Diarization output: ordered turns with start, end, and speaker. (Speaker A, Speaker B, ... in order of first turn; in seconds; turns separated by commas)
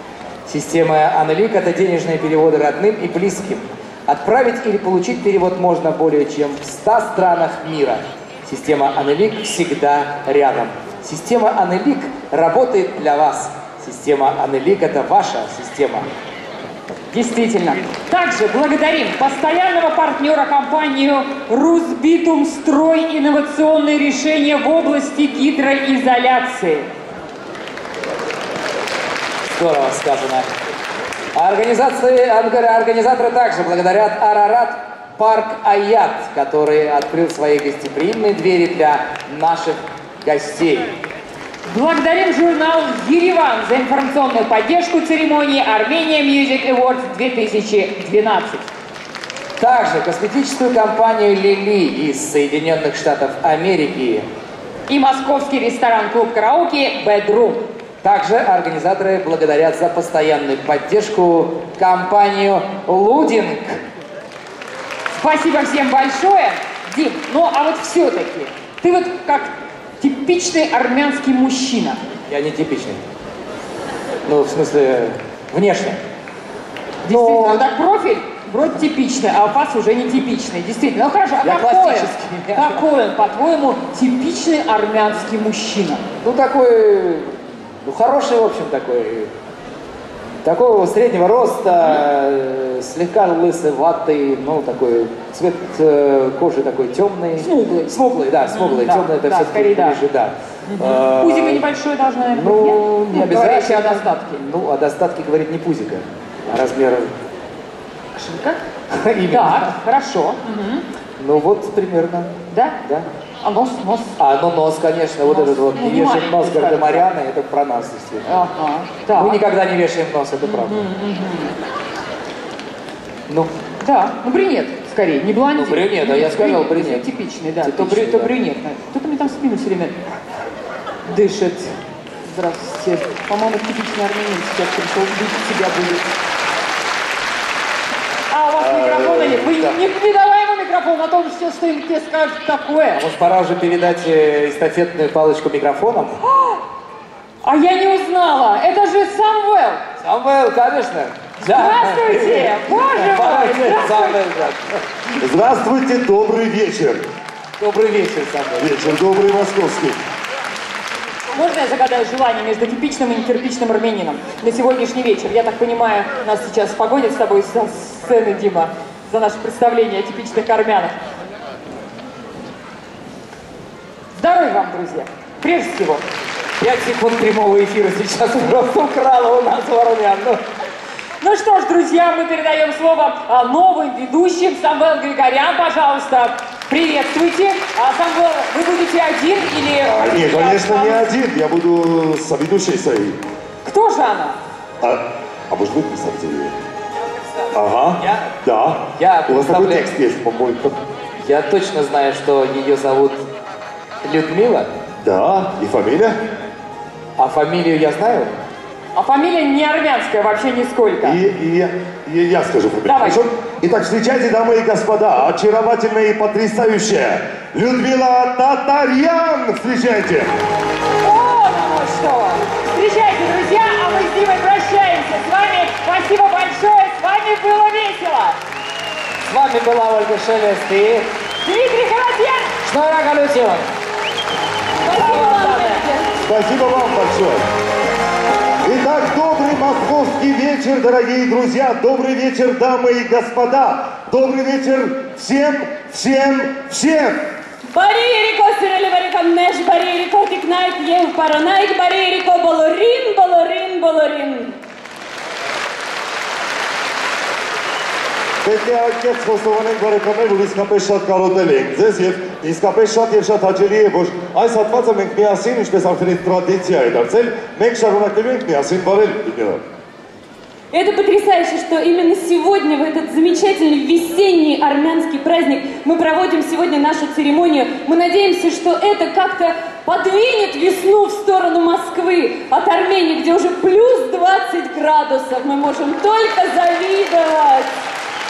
Speaker A: 0.5-16.1, Speaker B: 17.1-26.9, Speaker A: 29.5-30.5, Speaker A: 31.3-40.9, Speaker B: 41.7-48.6, Speaker A: 49.6-54.2, Speaker B: 54.9-57.6, Speaker A: 58.0-63.8, Speaker B: 65.1-72.0, Speaker A: 72.3-73.0, Speaker A: 74.2-76.0, Speaker B: 77.0-86.0, Speaker A: 77.0-77.6, Speaker A: 81.4-82.8, Speaker A: 86.2-89.3, Speaker A: 90.4-101.6, Speaker B: 97.4-98.0, Speaker B: 98.5-100.0, Speaker B: 100.7-104.4, Speaker A: 102.3-107.1, Speaker B: 108.2-108.6, Speaker A: 108.9-109.8, Speaker B: 109.3-110.8, Speaker A: 111.2-112.3, Speaker B: 112.5-112.8, Speaker B: 113.4-114.2, Speaker A: 114.2-118.3, Speaker B: 115.3-117.1, Speaker B: 118.2-119.4, Speaker A: 119.1-120.8, Speaker B: 120.4-121.5, Speaker B: 123.8-130.0, Speaker A: 125.5-127.1, Speaker A: 127.6-128.3, Speaker B: 131.1-136.1, Speaker B: 138.3-143.0, Speaker C: 138.7-139.6, Speaker A: 142.9-146.2, Speaker B: 146.2-146.6, Speaker B: 147.4-149.8, Speaker A: 150.0-154.8, Speaker B: 151.4-154.2, Speaker C: 155.2-157.1, Speaker A: 157.6-158.8, Speaker C: 158.6-160.0, Speaker B: 161.3-170.9, Speaker B: 174.1-176.0, Speaker A: 176.6-180.4, Speaker B: 181.2-191.1, Speaker C: 189.8-193.2, Speaker B: 193.6-194.4, Speaker C: 194.8-196.6, Speaker C: 197.5-200.8, Speaker A: 198.0-198.3, Speaker A: 198.9-199.9, Speaker A: 201.2-203.2, Speaker A: 204.0-204.7, Speaker C: 205.0-206.2, Speaker A: 207.2-208.3, Speaker B: 208.9-211.2, Speaker C: 211.0-220.3, Speaker B: 212.8-213.3, Speaker B: 221.0-228.4, Speaker A: 229.3-231.1, Speaker B: 231.4-232.5, Speaker A: 232.6-233.7, Speaker B: 234.8-235.8, Speaker D: 234.8-236.1, Speaker A: 235.0-235.5, Speaker C: 236.2-237.4, Speaker C: 238.6-247.2, Speaker D: 247.6-254.6, Speaker C: 258.4-269.6, Speaker D: 270.7-287.7